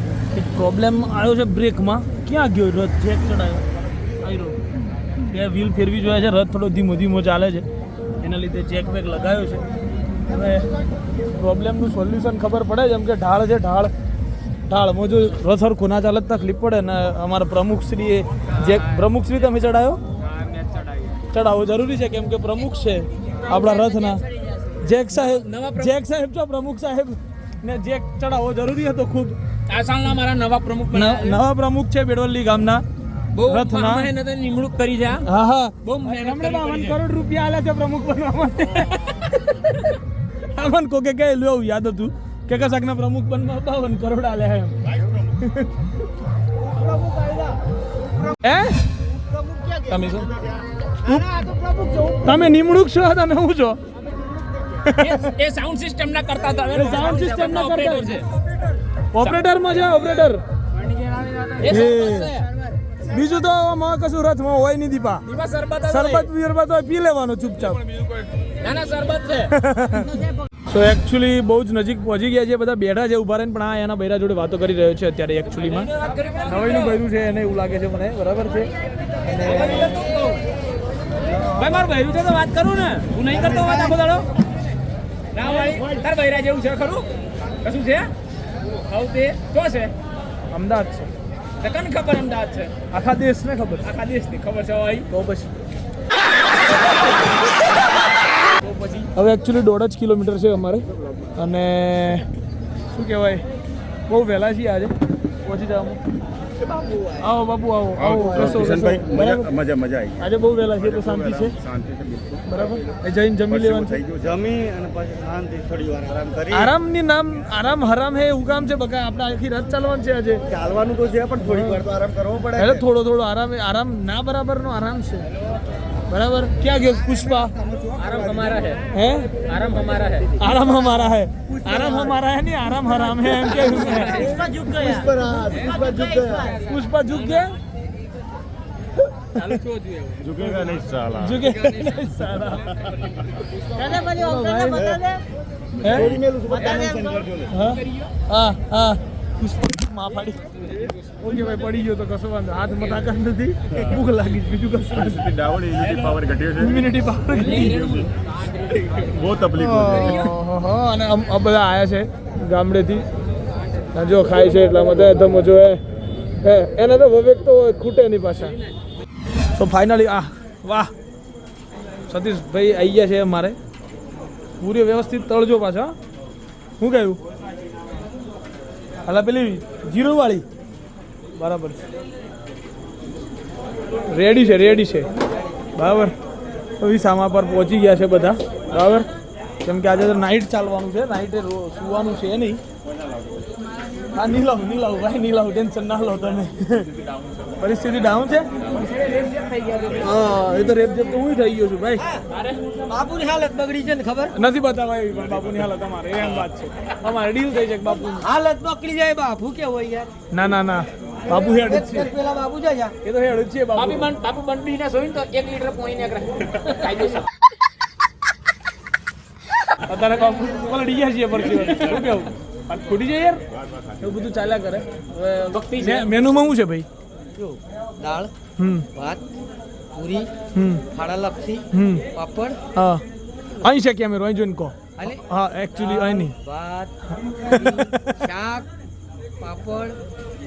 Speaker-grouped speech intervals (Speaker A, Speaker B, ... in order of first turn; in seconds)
Speaker A: 0.3-3.6, 4.2-4.6, 5.2-7.7, 8.2-9.7, 10.3-10.7, 11.3-13.9, 14.7-20.0, 21.3-24.2, 24.8-29.4, 30.9-32.8, 33.4-34.1, 35.2-45.7, 48.4-48.8, 49.9-50.3, 52.2-53.8, 54.8-55.3, 56.7-58.2, 59.1-60.4, 61.6-62.3, 63.0-65.2, 65.9-67.8, 69.5-70.1, 70.7-75.9, 76.4-80.0, 90.5-91.1, 92.9-93.9, 95.1-95.5, 99.1-102.3, 102.9-103.4, 104.1-104.9, 105.4-106.0, 107.2-109.5, 110.2-111.5, 112.5-114.0, 116.5-120.4, 121.4-121.8, 122.5-125.3, 126.1-127.5, 128.9-129.4, 130.4-134.3, 136.7-137.6, 140.4-142.8, 143.8-145.0, 145.8-146.1, 147.5-150.6, 151.2-155.4, 156.5-157.8, 159.5-163.1, 163.9-165.8, 166.4-168.6, 169.5-170.9, 172.1-173.6, 174.6-175.9, 176.8-177.2, 179.1-180.4, 181.3-181.8, 184.1-185.1, 185.8-186.1, 186.8-189.1, 189.6-192.6, 194.1-196.9, 197.6-198.5, 200.0-202.1, 204.3-208.3, 210.3-212.1, 213.0-214.1, 219.8-223.4, 224.0-226.9, 228.6-228.9, 230.5-230.8, 231.7-232.0, 232.8-233.0, 233.6-236.3, 237.1-238.3
Speaker B: 20.2-21.2, 23.5-24.5, 25.1-25.9, 29.7-31.4, 33.3-35.2, 35.8-37.0, 54.9-58.3, 60.8-62.5, 65.2-66.3, 68.1-69.5, 75.6-77.0, 79.4-80.4, 81.3-84.3, 85.3-87.1, 87.6-88.1, 88.6-89.9, 91.6-92.7, 93.8-95.1, 98.6-99.1, 127.9-128.8, 129.3-130.4, 133.4-134.8, 135.5-137.4, 139.4-140.5, 141.4-141.9, 146.5-148.1, 155.8-156.3, 157.3-160.3, 198.6-200.1, 202.3-203.0, 213.7-217.3, 225.5-226.2
Speaker C: 46.8-47.5, 49.3-49.9, 51.0-52.2, 106.7-107.1, 121.1-121.7, 134.3-136.6, 143.8-145.2, 145.9-147.3, 202.9-204.3, 208.2-210.1, 211.3-212.9, 227.3-228.3, 228.9-229.2, 229.9-230.3, 230.9-232.6, 235.0-235.2, 235.8-238.7, 239.4-240.0
Speaker D: 108.0-110.2, 110.8-112.4, 113.5-114.3, 140.2-141.3, 155.1-156.7, 159.1-159.8
Speaker E: 114.2-116.7, 120.5-122.8, 127.6-128.5, 134.8-136.5, 146.2-147.2